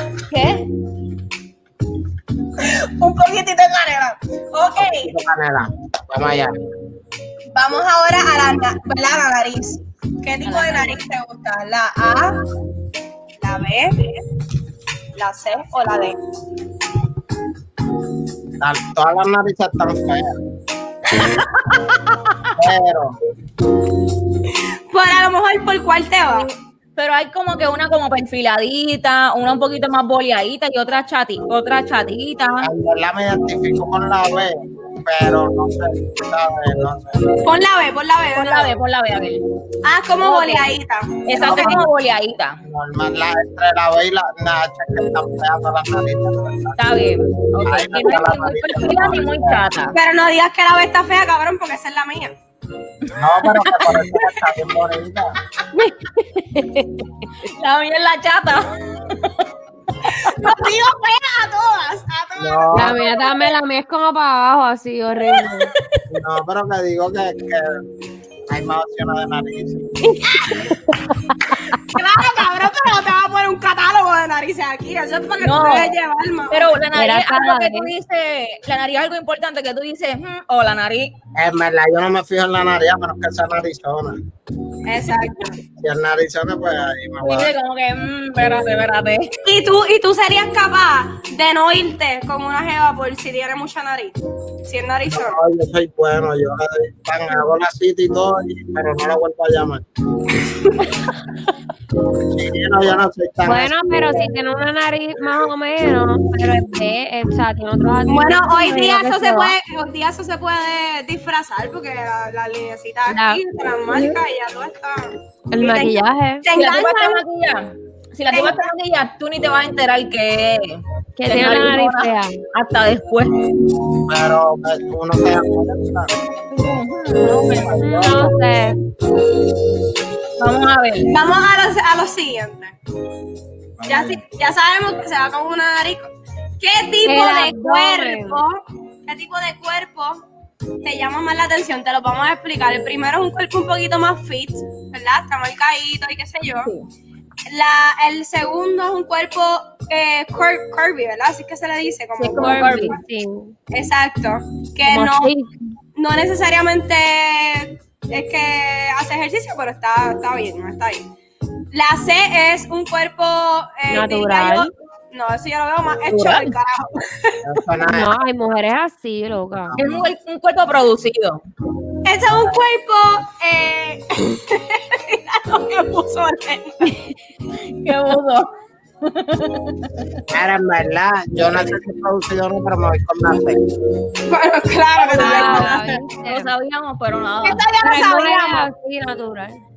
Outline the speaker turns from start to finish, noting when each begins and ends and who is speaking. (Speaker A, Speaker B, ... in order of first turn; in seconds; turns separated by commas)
Speaker A: 0.3-0.6, Speaker B: 2.6-5.1, Speaker C: 4.8-6.5, Speaker B: 7.5-12.4, Speaker A: 10.4-11.0, Speaker B: 13.4-14.2, Speaker B: 15.2-16.2, Speaker C: 18.6-20.3, Speaker A: 21.2-22.1, Speaker C: 22.6-23.2, Speaker B: 24.9-26.5, Speaker A: 26.4-32.7, Speaker C: 32.6-37.3, Speaker B: 37.4-38.8, Speaker A: 38.3-39.4, Speaker B: 39.8-41.8, Speaker A: 40.2-40.8, Speaker A: 41.3-42.6, Speaker C: 41.4-41.8, Speaker C: 42.6-49.6, Speaker A: 46.8-49.9, Speaker B: 49.9-52.4, Speaker C: 53.1-55.4, Speaker D: 55.8-56.9, Speaker A: 57.4-59.4, Speaker B: 60.0-63.5, Speaker C: 62.4-63.0, Speaker D: 62.7-65.7, Speaker C: 66.1-67.8, Speaker C: 68.5-70.2, Speaker D: 70.1-71.1, Speaker B: 71.8-76.7, Speaker A: 75.4-75.9, Speaker A: 76.5-81.1, Speaker D: 76.9-77.9, Speaker C: 81.3-84.2, Speaker B: 84.8-85.6, Speaker C: 85.8-87.5, Speaker A: 87.2-89.3, Speaker B: 89.4-95.4, Speaker C: 95.1-99.8, Speaker C: 102.2-104.3, Speaker D: 103.4-109.5, Speaker B: 108.1-117.2, Speaker D: 113.1-113.4, Speaker A: 113.9-114.2, Speaker D: 115.5-116.4, Speaker A: 116.5-123.3, Speaker B: 118.3-118.7, Speaker D: 121.2-122.4, Speaker C: 124.1-126.1, Speaker A: 126.5-128.3, Speaker D: 127.8-128.8, Speaker A: 130.4-131.1, Speaker B: 131.1-132.7, Speaker C: 133.8-134.2, Speaker B: 133.9-140.2, Speaker D: 137.0-138.4, Speaker B: 140.8-146.7, Speaker A: 146.6-146.9, Speaker B: 147.5-153.0, Speaker A: 152.2-152.9, Speaker D: 152.4-153.5, Speaker B: 153.7-155.3, Speaker D: 154.8-155.5, Speaker B: 155.9-161.1, Speaker B: 161.7-167.4, Speaker D: 163.9-164.7, Speaker A: 166.1-166.5, Speaker C: 167.4-168.2, Speaker D: 167.8-169.7, Speaker C: 169.7-170.1, Speaker A: 169.8-171.4, Speaker B: 172.1-176.9, Speaker C: 172.3-172.6, Speaker A: 177.8-178.5, Speaker A: 179.0-180.2, Speaker C: 180.3-183.6, Speaker B: 184.2-186.0, Speaker D: 185.1-186.5, Speaker A: 185.1-187.7, Speaker B: 187.4-188.7, Speaker D: 187.8-189.6